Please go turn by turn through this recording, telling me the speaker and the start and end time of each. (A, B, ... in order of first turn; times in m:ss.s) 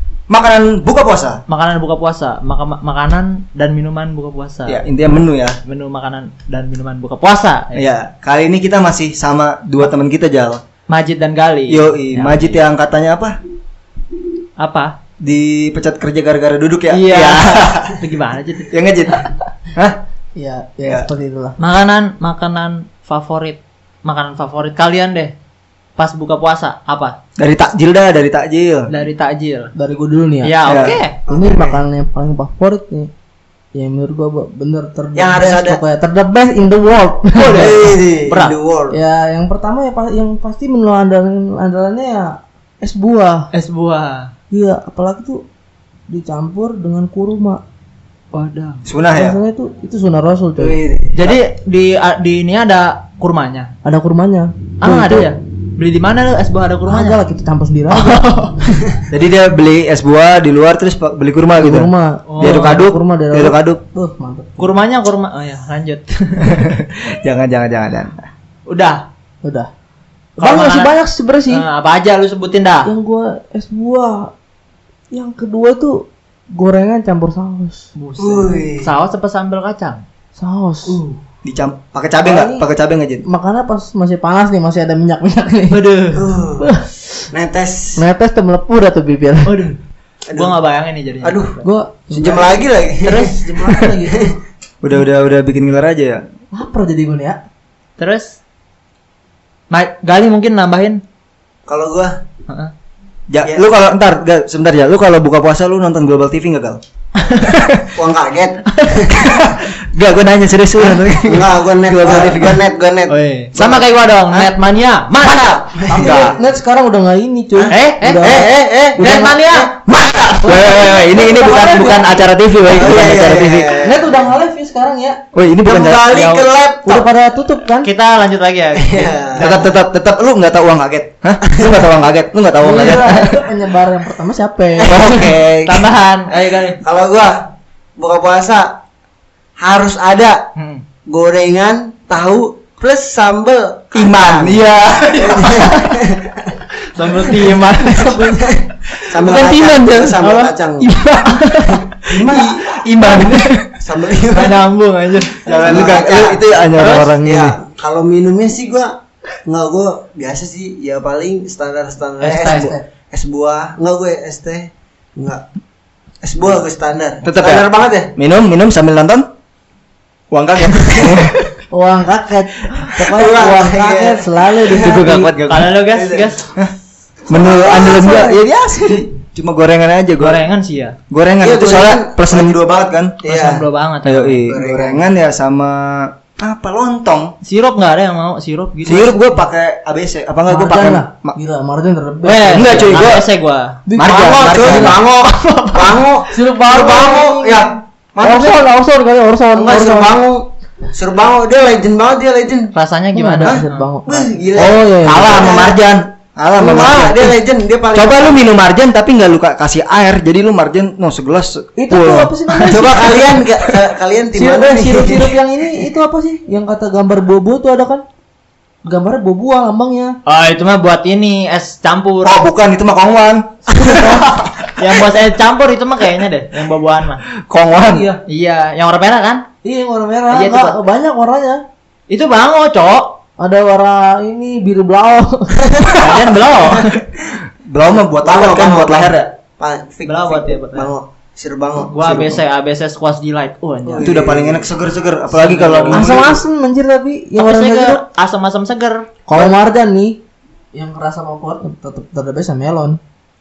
0:00.3-0:01.4 A
0:01.5-0:04.8 B
0:04.7-0:05.6 A
0:05.6-0:07.8 B
0:07.7-0:10.6 A
0:10.9-0:12.6 B
0:11.7-0:13.4 A
0:14.6-0:15.0 B
0:15.2-0:18.0 A
0:16.9-0:18.7 B
0:18.7-0:20.0 A
0:20.4-0:21.6 C
0:21.6-0:25.3 B
0:26.0-0:27.2 B
0:27.4-0:28.9 A
0:28.9-0:29.7 B
0:29.8-0:33.1 C
0:30.4-0:31.2 B
0:30.6-0:31.0 A
0:31.3-0:31.8 D
0:33.7-0:38.0 C
0:35.1-0:35.8 D
0:37.4-0:38.6 B
0:37.5-0:39.0 D
0:38.9-0:43.5 C
0:43.5-0:44.3 B
0:44.5-0:45.4 C
0:46.1-0:47.6 C
0:48.3-0:48.8 B
0:48.8-0:49.4 A
0:49.1-0:50.8 C
0:50.6-0:51.4 D
0:51.2-0:53.7 B
0:53.8-0:55.3 C
0:54.8-0:57.2 B
0:56.9-0:58.3 C
0:57.9-0:58.7 B
0:59.1-1:03.8 A
1:01.6-1:04.8 C
1:02.3-1:02.9 B
1:04.6-1:06.6 B
1:06.4-1:08.2 A
1:08.7-1:09.1 B
1:09.4-1:09.7 C
1:10.4-1:11.7 C
1:10.4-1:10.9 B
1:11.5-1:12.9 B
1:12.8-1:14.3 C
1:15.1-1:16.0 C
1:16.5-1:17.9 C
1:18.0-1:20.0 B
1:18.2-1:18.9 D
1:20.4-1:21.0 C
1:20.9-1:21.2 B
1:21.4-1:23.2 A
1:22.2-1:22.7 C
1:23.2-1:25.8 C
1:25.7-1:26.3 B
1:26.2-1:26.7 D
1:26.6-1:26.9 C
1:27.3-1:28.0 D
1:28.0-1:29.6 C
1:29.4-1:29.8 B
1:30.3-1:30.6 D
1:30.3-1:31.6 B
1:31.2-1:34.4 D
1:31.6-1:34.4 C
1:33.0-1:33.4 B
1:34.8-1:36.2 A
1:36.5-1:37.4 C
1:38.0-1:38.4 B
1:39.7-1:41.0 B
1:41.7-1:42.1 D
1:42.5-1:42.7 B
1:43.3-1:46.8 A
1:47.2-1:47.6 B
1:47.4-1:47.8 A
1:47.9-1:49.3 D
1:48.7-1:49.0 B
1:49.2-1:52.6 A
1:51.2-1:53.8 D
1:53.1-1:56.3 B
1:55.2-1:56.4 D
1:55.9-1:59.5 C
1:57.5-2:00.3 D
1:57.7-1:58.4 B
1:59.0-1:59.8 B
2:00.2-2:04.2 A
2:00.4-2:02.2 C
2:01.5-2:03.2 B
2:02.7-2:04.0 D
2:03.8-2:05.2 C
2:05.3-2:06.2 A
2:05.6-2:07.1 D
2:06.1-2:06.4 B
2:06.8-2:07.9 C
2:07.8-2:09.7 B
2:08.8-2:09.6 D
2:09.4-2:13.5 A
2:11.5-2:11.9 D
2:12.6-2:15.3 C
2:14.8-2:15.5 D
2:14.9-2:15.9 A
2:15.6-2:16.8 B
2:16.8-2:18.8 D
2:19.6-2:20.5 D
2:20.6-2:20.8 B
2:21.1-2:26.5 D
2:23.9-2:25.8 A
2:25.4-2:25.8 B
2:26.7-2:28.2 B
2:27.3-2:30.9 D
2:27.9-2:28.5 C
2:28.9-2:32.2 B
2:29.3-2:29.9 C
2:32.0-2:32.8 D
2:32.3-2:33.6 A
2:33.0-2:33.4 B
2:33.7-2:34.6 D
2:34.3-2:36.0 B
2:35.4-2:37.6 A
2:35.4-2:36.4 D
2:36.8-2:37.1 B
2:37.2-2:38.9 D
2:39.4-2:45.4 D
2:42.2-2:42.7 B
2:42.4-2:42.8 C
2:46.2-2:48.1 D
2:47.2-2:49.3 A
2:50.3-2:51.4 A
2:51.7-2:55.4 C
2:53.0-2:55.0 D
2:54.7-2:55.7 A
2:55.1-2:56.4 B
2:55.9-2:56.4 D
2:57.3-2:58.2 D
2:57.3-3:00.4 A
2:57.7-2:58.4 C
3:00.2-3:01.0 B
3:01.1-3:03.2 A
3:01.4-3:02.6 D
3:03.2-3:03.6 D
3:03.2-3:04.4 B
3:04.0-3:07.4 A
3:04.4-3:05.0 D
3:07.4-3:09.2 B
3:08.8-3:11.4 A
3:10.5-3:13.0 C
3:12.2-3:13.8 B
3:12.5-3:13.3 A
3:13.9-3:15.0 C
3:14.0-3:15.0 A
3:14.0-3:17.8 D
3:14.4-3:16.1 B
3:16.3-3:20.2 C
3:18.1-3:18.6 A
3:19.5-3:22.7 D
3:22.7-3:23.9 B
3:23.2-3:25.5 C
3:23.4-3:25.8 D
3:24.6-3:27.4 A
3:26.5-3:28.4 D
3:27.9-3:32.9 A
3:31.8-3:33.4 C
3:32.7-3:35.9 D
3:34.3-3:38.0 C
3:38.8-3:40.2 C
3:40.3-3:42.5 B
3:42.2-3:44.3 A
3:43.7-3:44.5 C
3:44.7-3:47.2 B
3:47.5-3:48.1 A
3:47.8-3:48.2 C
3:48.3-3:49.4 B
3:49.6-3:51.6 C
3:50.3-3:50.8 B
3:52.1-3:53.2 B
3:53.4-3:55.7 C
3:55.6-3:56.5 D
3:56.0-3:57.0 B
3:57.2-3:59.3 A
3:58.2-4:02.4 D
4:00.1-4:00.9 B
4:01.9-4:04.1 B
4:03.9-4:04.7 D
4:04.0-4:06.4 A
4:05.3-4:06.2 B
4:05.9-4:08.0 C
4:07.4-4:09.1 B
4:09.3-4:10.2 C
4:10.7-4:13.0 C